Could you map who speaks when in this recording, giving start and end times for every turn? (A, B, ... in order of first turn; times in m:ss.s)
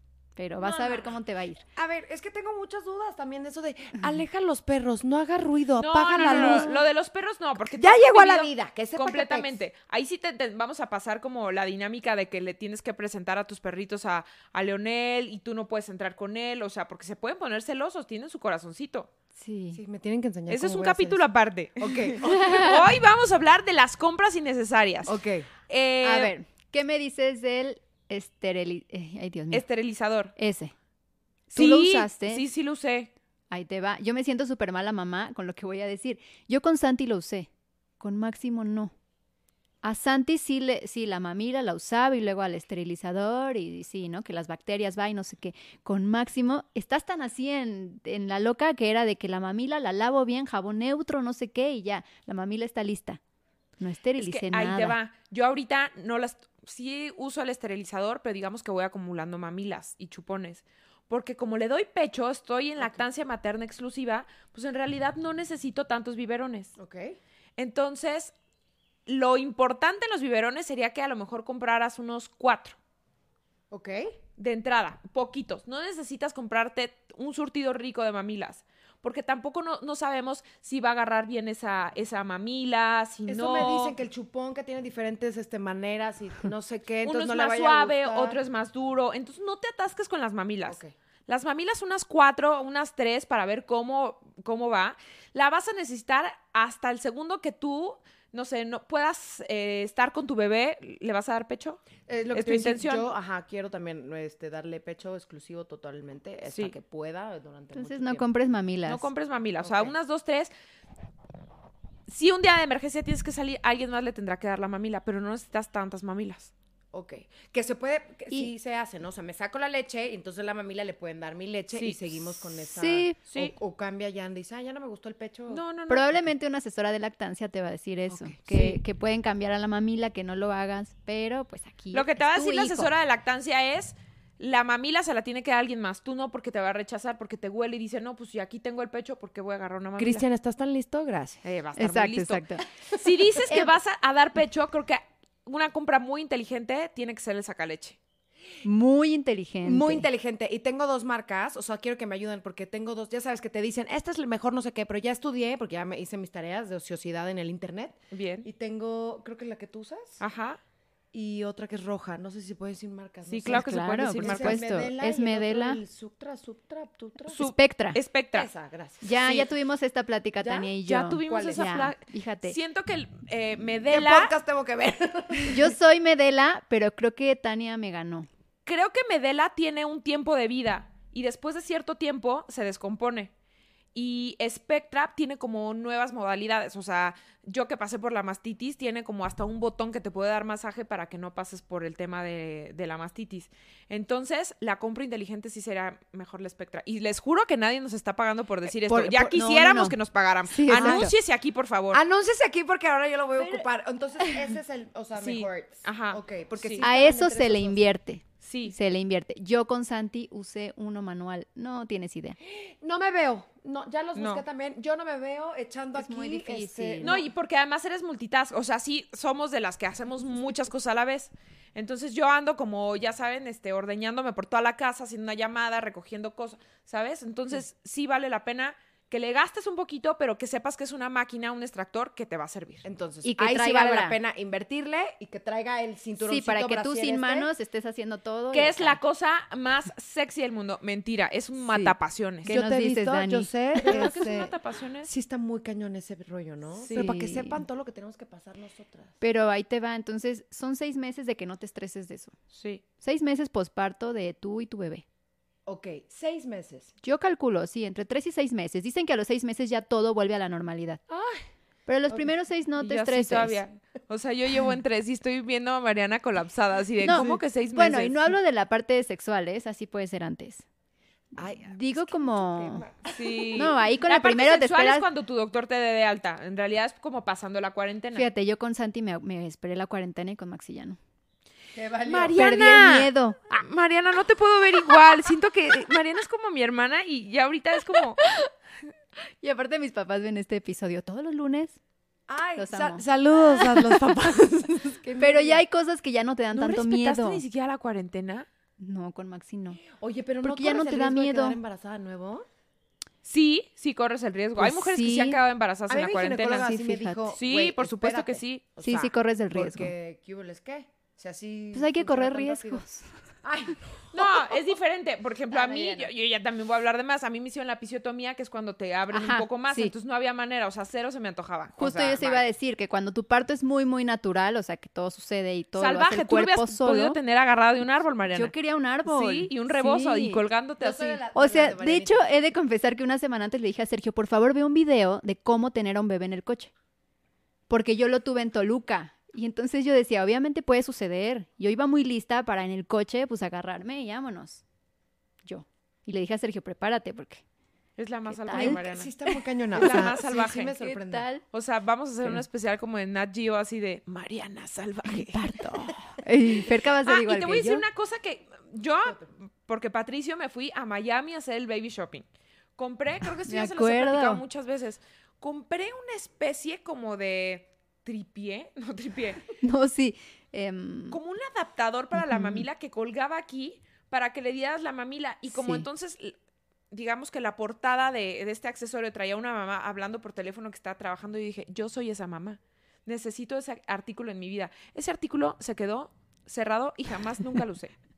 0:00.4-0:01.6 A
0:00.6-0:01.2 B
0:01.7-0:06.8 B
0:05.8-0:19.1 C
0:06.3-0:06.8 A
0:07.6-0:09.6 B
0:19.4-0:19.8 A
0:19.7-0:21.2 B
0:20.5-0:25.2 C
0:21.8-0:22.6 B
0:22.2-0:22.8 A
0:25.0-0:25.5 B
0:25.7-0:26.3 C
0:26.0-0:29.6 A
0:29.5-0:30.3 C
0:30.4-0:30.7 A
0:31.5-0:32.4 A
0:31.5-0:33.1 C
0:33.5-0:37.5 A
0:38.0-0:38.9 A
0:39.8-0:53.2 A
0:53.8-0:55.0 A
0:54.2-1:06.7 C
1:06.8-1:07.2 B
1:07.6-1:08.3 C
1:09.1-1:12.8 C
1:13.7-1:14.2 B
1:14.4-1:24.0 C
1:23.3-1:28.4 B
1:27.0-1:43.1 C
1:30.6-1:30.9 B
1:42.0-1:48.2 B
1:46.5-1:46.7 C
1:47.7-1:49.1 A
1:48.8-1:50.5 C
1:49.6-1:50.0 B
1:52.1-1:56.5 C
1:56.9-2:05.6 B
2:01.7-2:02.0 C
2:02.7-2:03.2 A
2:03.3-2:03.5 C
2:05.5-2:06.1 C
2:05.9-2:12.9 A
2:08.1-2:08.7 B
2:11.9-2:20.2 C
2:20.0-2:21.4 B
2:21.4-2:28.0 C
2:21.8-2:22.6 A
2:23.0-2:23.4 B
2:28.6-2:30.0 A
2:29.6-2:40.2 B
2:38.1-2:38.5 C
2:40.2-2:40.6 C
2:41.1-2:47.4 B
2:43.3-2:44.6 C
2:43.4-2:45.8 A
2:47.3-2:48.5 C
2:47.3-2:48.0 A
2:48.3-2:49.5 B
2:49.0-2:52.6 A
2:49.2-2:49.5 C
2:50.4-2:50.7 B
2:50.8-2:54.3 C
2:51.2-2:51.9 B
2:53.9-2:55.7 B
2:55.5-2:58.3 A
2:58.6-3:03.3 C
3:03.9-3:22.0 C
3:18.9-3:19.3 B
3:18.9-3:20.0 A
3:20.5-3:21.1 A
3:20.7-3:21.1 B
3:21.9-3:27.8 B
3:23.4-3:23.6 A
3:25.2-3:26.8 C
3:26.8-3:32.4 A
3:28.4-3:28.7 C
3:32.4-3:37.3 B
3:34.1-3:34.4 C
3:35.9-3:37.2 A
3:37.0-3:52.8 C
3:52.8-3:57.5 B
3:53.2-3:54.2 A
3:56.2-3:59.0 A
3:58.5-4:02.6 C
4:01.6-4:04.0 A
4:02.5-4:09.2 B
4:03.8-4:05.1 C
4:06.9-4:07.6 A
4:09.2-4:12.4 A
4:12.5-4:12.8 C
4:13.0-4:15.0 A
4:15.6-4:16.9 B
4:17.0-4:21.0 A
4:21.1-4:21.4 B
4:21.9-4:23.7 A
4:22.8-4:28.3 C
4:27.0-4:30.6 A
4:27.1-4:27.4 B
4:31.3-4:33.7 B
4:31.6-4:32.8 A
4:33.1-4:38.3 C
4:33.5-4:35.1 A
4:38.1-4:41.0 A
4:41.7-4:42.4 B
4:42.0-4:48.2 C
4:42.4-4:43.4 A
4:49.4-4:51.8 A
4:52.3-4:55.6 B
4:52.6-4:54.1 A
4:55.1-4:57.4 A
4:56.5-4:58.5 C
4:58.8-4:59.8 A
4:59.8-5:02.4 B
5:00.4-5:01.6 A
5:03.2-5:06.7 C
5:04.6-5:05.4 A
5:05.9-5:12.8 B
5:06.6-5:07.3 A
5:07.3-5:08.7 C
5:08.8-5:09.9 A
5:11.7-5:13.1 A
5:13.4-5:14.6 B
5:14.1-5:22.4 C
5:15.5-5:16.1 B
5:19.1-5:19.9 A
5:21.8-5:27.2 A
5:25.8-5:28.5 C
5:28.3-5:30.4 A
5:29.0-5:31.2 C
5:30.8-5:32.3 B
5:31.3-5:36.7 A
5:37.7-5:44.6 A
5:45.4-5:47.4 A
5:48.0-5:49.1 C
5:48.3-5:51.4 A
5:48.5-5:51.3 B
5:49.7-5:50.8 C
5:51.5-5:55.6 C
5:55.1-5:57.8 A
5:57.0-6:09.4 C
6:03.5-6:04.4 A
6:09.6-6:11.2 A
6:11.1-6:16.4 C
6:12.1-6:12.7 A
6:15.5-6:15.8 A
6:16.9-6:27.9 C